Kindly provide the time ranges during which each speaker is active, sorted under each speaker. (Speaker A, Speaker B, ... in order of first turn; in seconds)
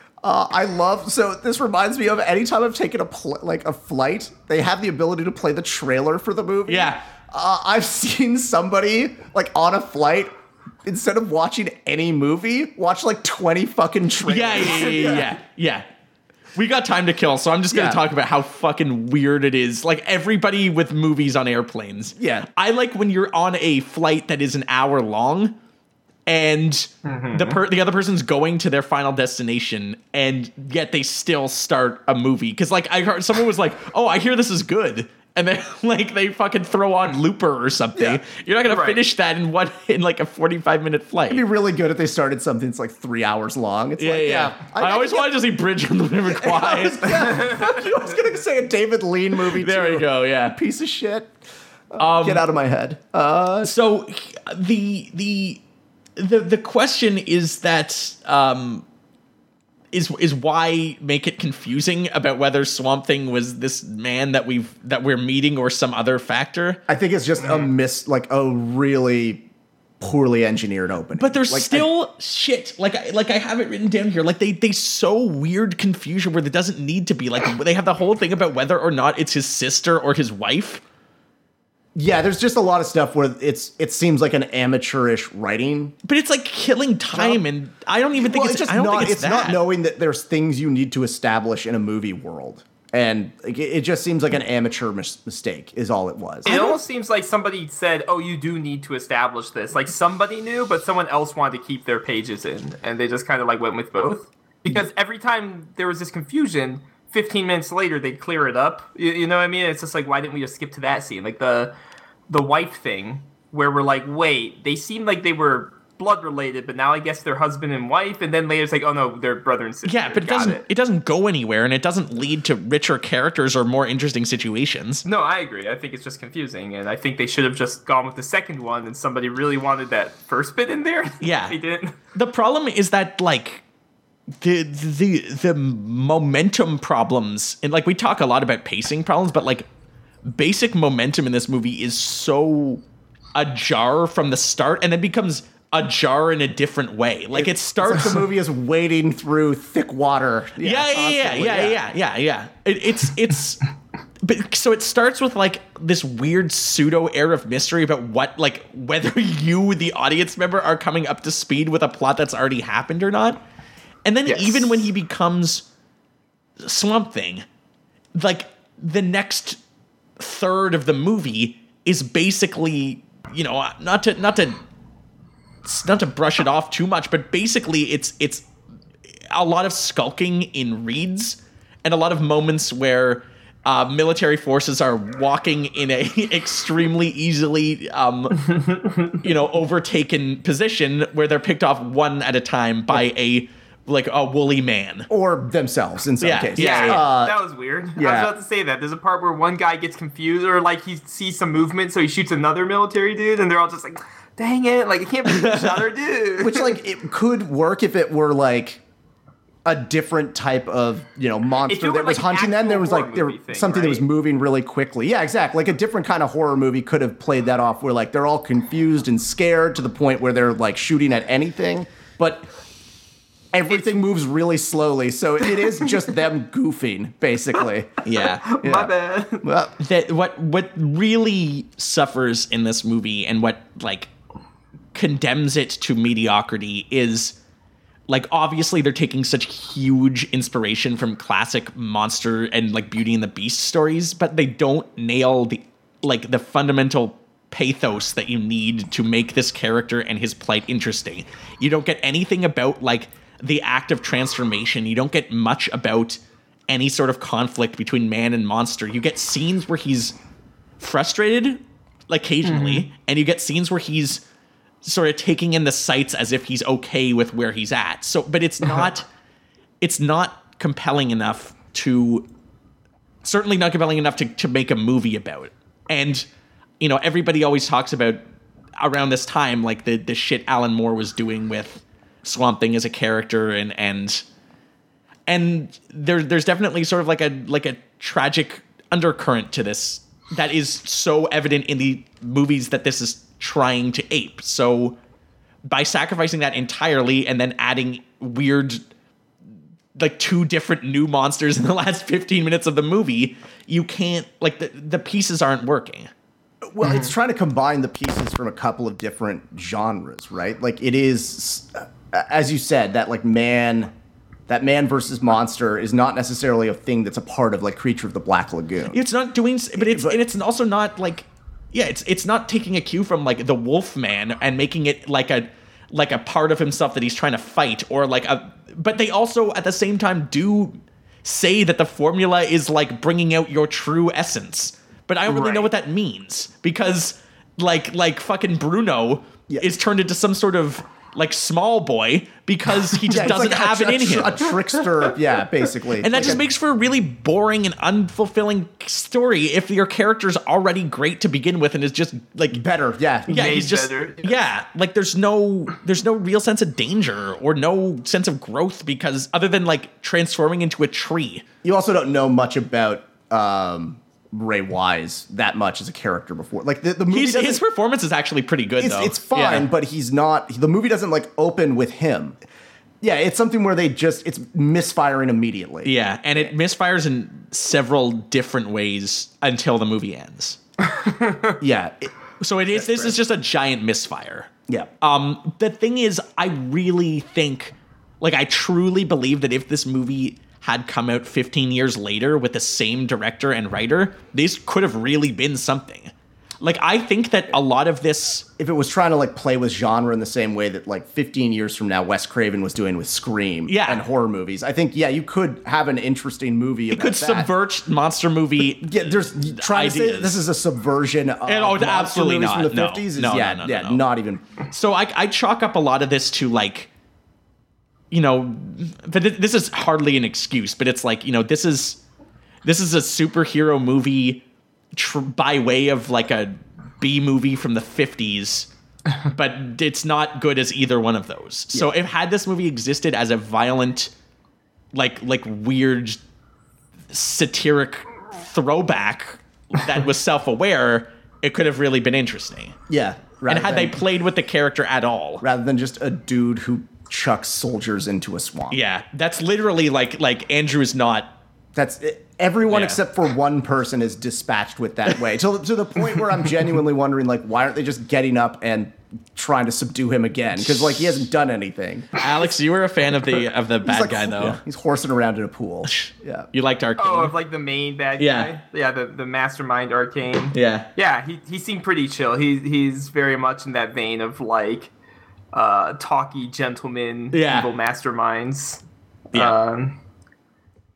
Speaker A: 0.2-10.3, 10.8-15.3, 17.7-18.0, 22.2-22.5, 38.0-38.2, 41.3-45.4, 46.2-51.3, 51.9-53.7, 66.9-69.5, 70.0-71.9, 82.0-86.0, 87.1-87.4, 88.2-96.7, 147.3-151.8, 195.1-197.4, 198.0-198.3, 206.4-208.8, 209.7-222.5, 223.5-227.9, 228.6-229.8, 306.6-313.9, 314.5-319.0, 319.8-320.2, 335.3-335.7, 343.1-346.4, 352.5-353.5, 361.6-367.6, 368.8-372.4, 373.0-376.5, 381.6-382.1, 398.6-407.5, 408.8-414.4, 442.9-444.0, 445.4-448.8, 451.8-462.2, 463.8-466.5
Speaker B: 6.7-7.0, 14.2-15.8, 16.6-25.6, 26.3-41.4, 44.0-47.4, 49.5-50.6, 52.0-52.5, 53.6-55.6, 56.2-58.9, 59.9-66.8, 71.2-80.8, 86.0-89.6, 119.8-125.0, 131.2-131.6, 132.1-133.6, 134.4-139.7, 140.3-142.8, 143.3-148.3, 150.6-153.6, 154.2-163.4, 164.1-165.7, 166.6-167.4, 168.2-169.6, 170.2-174.6, 175.6-178.5, 179.3-188.6, 189.2-195.1, 196.2-197.0, 205.3-205.9, 228.1-228.5, 229.8-234.1, 234.9-237.4, 238.1-260.2, 260.8-264.2, 264.8-269.1, 269.8-272.3, 273.2-276.3, 276.8-278.2, 278.8-284.2, 285.3-295.0, 295.6-298.8, 299.9-306.1, 318.9-344.6, 346.0-352.6, 353.3-361.4, 367.1-369.7, 375.8-380.6, 382.4-398.5, 403.7-404.0, 406.9-410.4, 411.5-414.0, 414.7-416.9, 418.1-422.0, 422.6-424.4, 424.9-428.7, 429.2-434.1, 434.9-436.2, 437.1-442.8, 443.5-445.4, 448.7-451.3, 452.7-453.0, 460.7-461.1, 462.2-464.6, 465.9-467.3, 468.2-468.5, 470.5-470.9, 477.3-477.7
Speaker C: 27.1-27.6, 38.7-39.0, 96.5-111.7, 112.3-120.6, 125.0-132.0, 164.3-164.8, 188.7-189.1, 196.6-206.8, 211.7-214.1, 228.2-229.5, 262.4-262.9, 353.3-354.4, 380.9-381.6, 467.0-474.9, 475.5-480.0